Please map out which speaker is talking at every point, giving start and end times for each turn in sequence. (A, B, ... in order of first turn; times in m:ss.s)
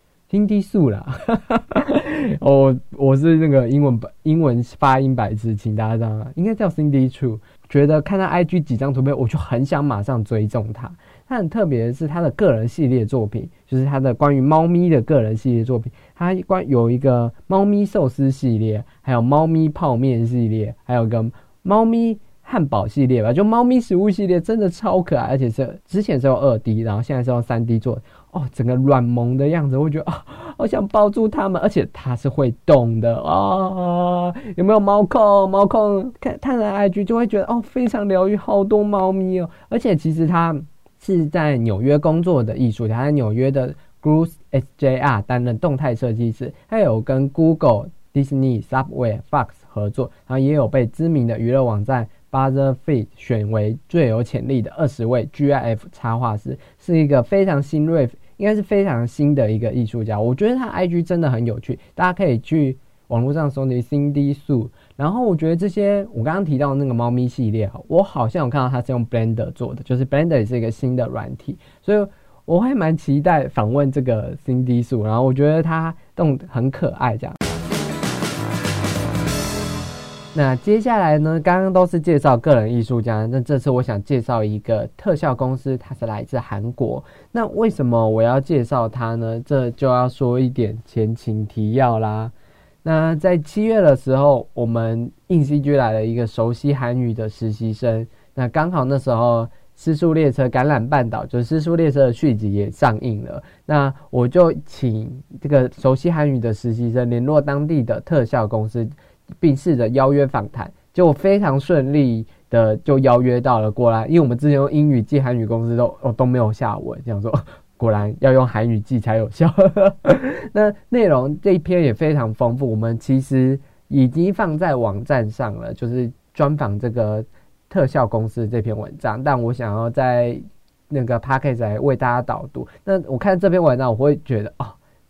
0:00.3-1:17.4 A
1:20.3-2:14.8 A